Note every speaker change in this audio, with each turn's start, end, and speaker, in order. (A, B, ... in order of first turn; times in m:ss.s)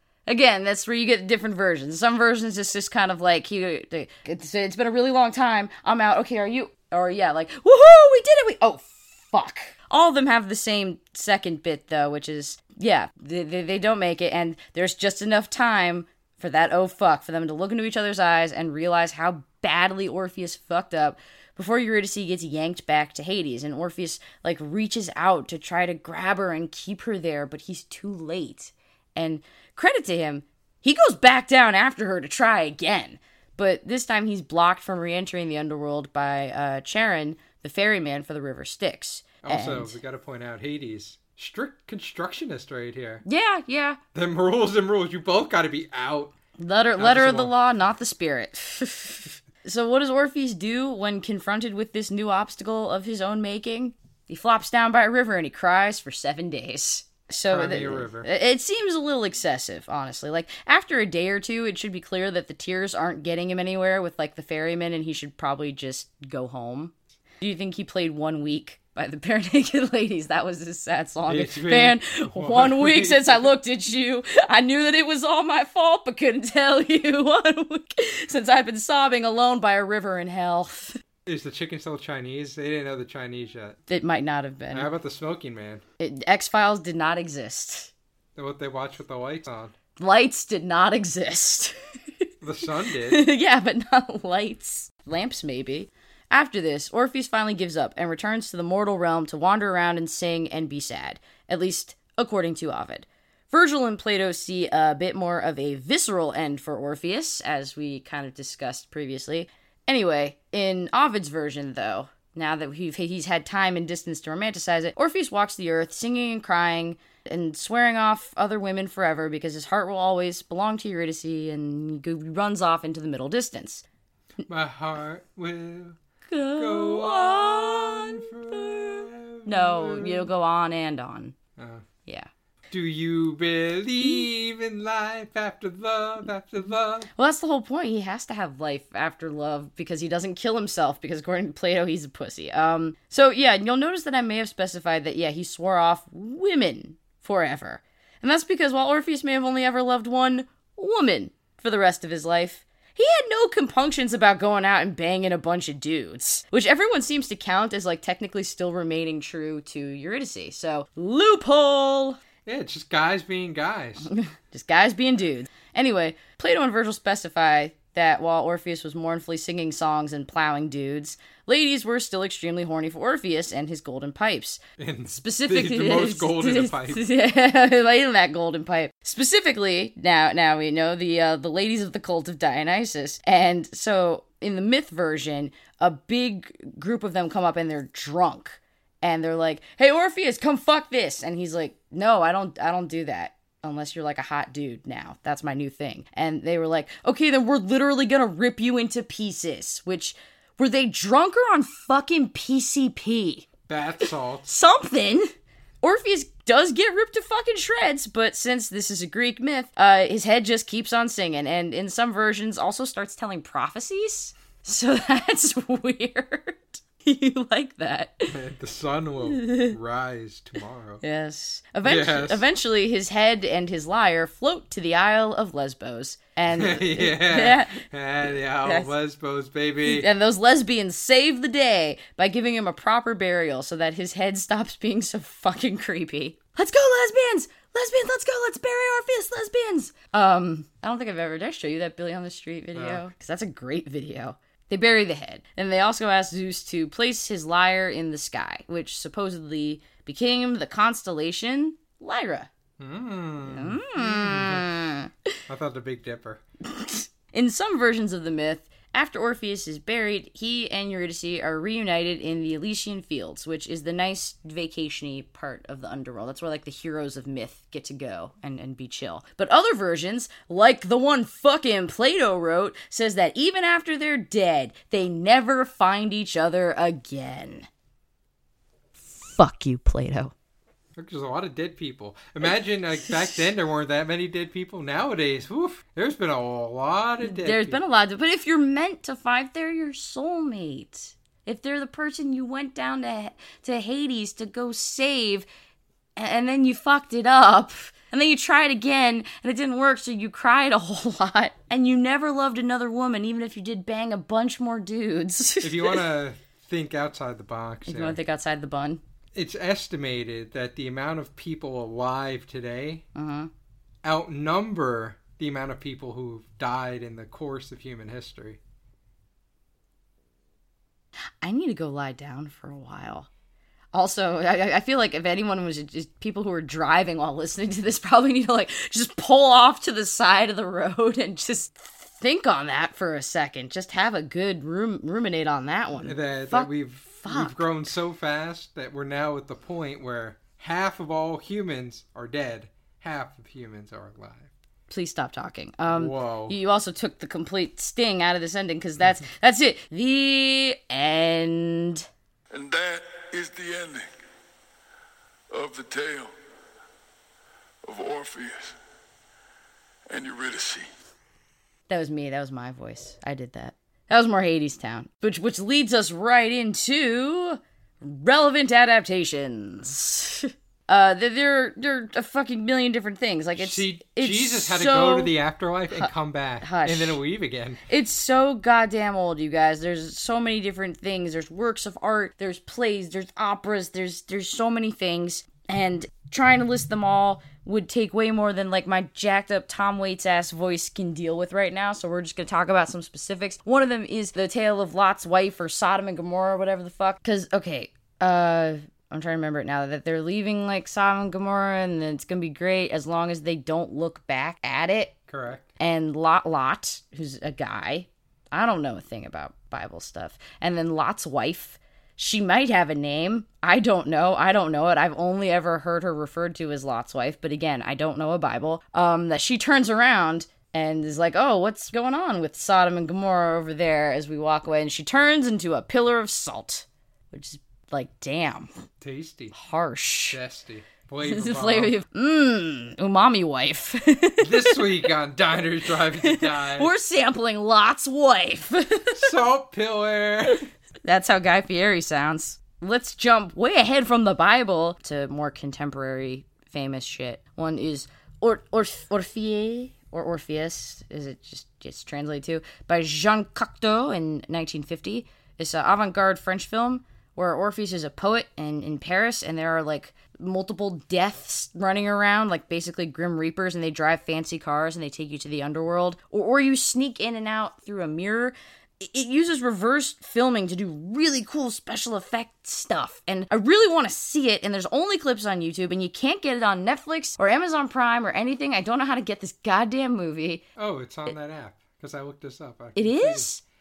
0:00.3-0:40.0 A
0:39.4-0:43.2 B
0:43.2-0:44.0 A
0:44.1-0:46.4 B
0:46.6-1:21.0 A
0:47.0-0:47.5 B
0:57.5-0:58.3 B
1:11.3-1:13.5 B
1:21.3-1:23.8 B
1:23.9-1:24.9 A
1:24.7-1:25.8 B
1:26.0-1:27.9 A
1:28.4-1:29.7 B
1:30.0-1:31.8 A
1:32.4-1:33.3 B
1:33.0-2:03.8 A
2:04.5-2:06.0 B
2:06.3-2:11.4 A
2:06.6-2:10.3 B
2:11.6-2:11.9 B
2:12.7-2:17.1 B
2:17.2-2:42.2 A
2:42.5-2:44.1 B
2:44.0-3:23.5 A
2:54.8-2:57.0 B
3:23.7-3:24.5 B
3:24.0-3:38.4 A
3:38.3-3:41.0 B
3:39.3-3:39.7 A
3:41.0-3:48.9 A
3:41.8-3:42.5 B
3:46.6-3:50.1 B
3:49.8-4:12.5 A
4:02.8-4:03.1 B
4:12.8-4:14.7 B
4:13.5-4:15.3 A
4:15.5-4:16.4 B
4:16.6-4:37.7 A
4:39.1-4:40.3 A
4:41.0-4:47.8 B
4:47.2-4:55.5 A
4:56.2-5:06.0 A
5:05.6-5:08.2 B
5:07.9-5:09.0 A
5:09.3-5:13.0 B
5:13.2-5:13.5 A
5:14.0-5:18.6 B
5:21.4-5:23.3 A
5:23.9-5:37.6 A
5:36.0-5:44.5 B
5:44.9-5:52.1 A
5:45.9-5:46.6 B
5:52.5-5:54.2 C
5:55.5-5:56.3 C
5:57.9-5:58.8 C
6:00.1-6:00.9 C
6:01.9-6:15.3 A
6:13.6-6:17.8 B
6:15.9-6:17.2 A
6:17.9-6:45.2 A
6:45.3-6:45.7 B
6:45.8-7:08.7 A
7:09.0-7:09.6 B
7:09.5-7:10.4 A
7:10.3-7:12.0 B
7:11.2-7:15.1 A
7:14.4-7:16.9 B
7:16.1-7:19.3 A
7:19.1-7:20.7 B
7:21.0-8:00.6 A
8:00.8-8:03.5 B
8:03.0-8:03.6 A